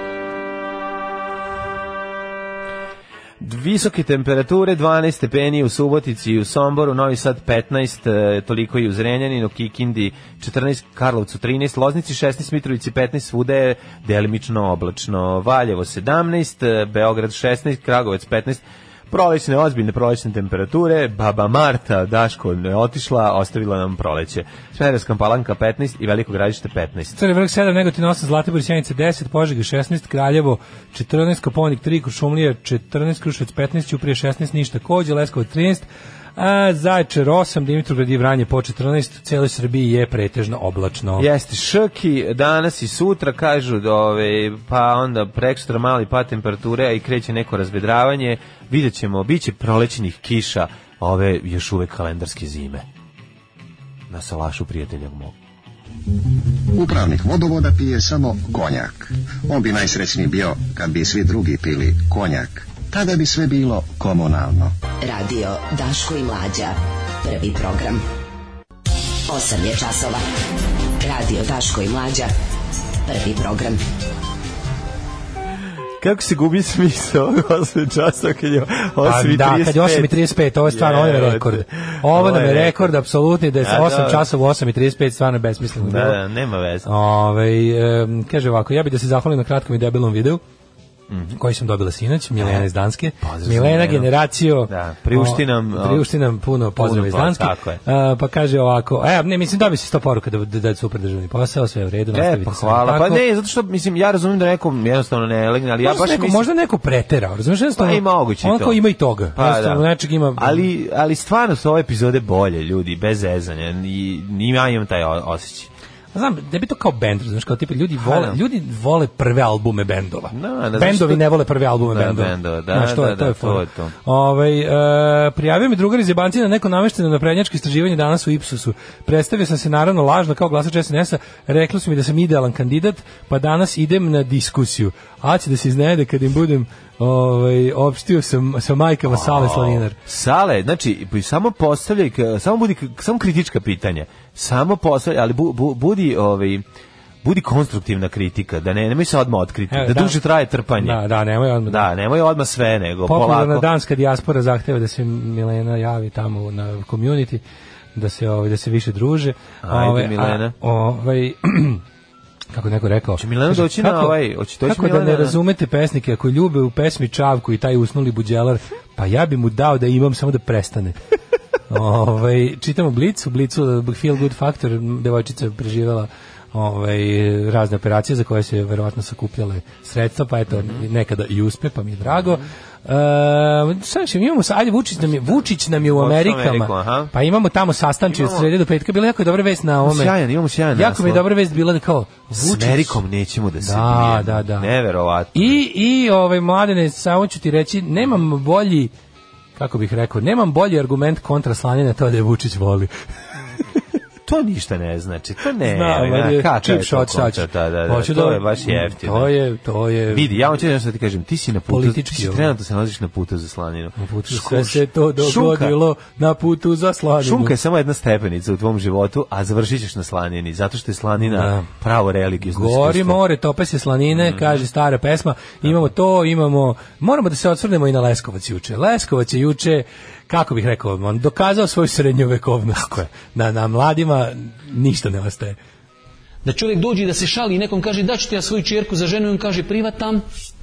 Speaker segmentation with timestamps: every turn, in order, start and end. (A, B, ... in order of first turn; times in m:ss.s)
0:03.4-0:27.2 A
0:27.2-0:41.3 B
0:41.2-0:52.9 A
0:54.1-0:55.3 A
0:56.6-1:04.7 C
1:05.0-1:08.0 D
1:09.3-1:10.2 D
1:11.0-1:12.3 D
1:13.0-1:13.8 D
1:16.0-1:22.9 A
1:19.0-1:26.2 B
1:23.6-1:24.2 A
1:25.6-1:26.9 A
1:26.8-1:30.4 B
1:31.1-1:31.4 A
1:31.3-1:43.2 B
1:32.4-1:32.6 A
1:33.2-1:34.1 A
1:34.7-1:36.1 A
1:36.8-1:37.8 A
1:42.1-1:46.5 A
1:45.8-1:50.7 B
1:47.8-1:48.8 A
1:49.3-1:55.7 A
1:56.1-2:20.0 B
1:58.0-1:58.4 A
2:00.3-2:01.3 A
2:01.8-2:03.9 A
2:19.1-2:26.6 A
2:27.2-2:31.0 A
2:29.7-2:30.2 B
2:30.8-2:31.9 B
2:31.7-2:33.7 A
2:33.0-2:37.4 B
2:37.9-2:41.8 B
2:39.6-2:40.5 A
2:42.5-2:51.0 B
2:43.2-2:45.4 A
2:51.7-3:10.2 B
3:00.5-3:00.8 A
3:02.2-3:02.4 A
3:05.8-3:07.1 A
3:08.1-3:08.5 A
3:09.8-3:11.2 A
3:10.7-3:13.0 B
3:12.3-3:15.6 A
3:13.6-3:14.7 B
3:15.3-3:18.9 B
3:19.6-3:22.9 B
3:24.2-3:29.3 A
3:25.6-3:30.3 B
3:30.1-3:35.8 A
3:31.7-3:32.5 B
3:34.0-3:37.5 B
3:37.2-3:43.2 A
3:41.2-3:41.7 B
3:42.4-3:55.6 B
3:44.1-3:44.6 A
3:56.4-4:00.2 E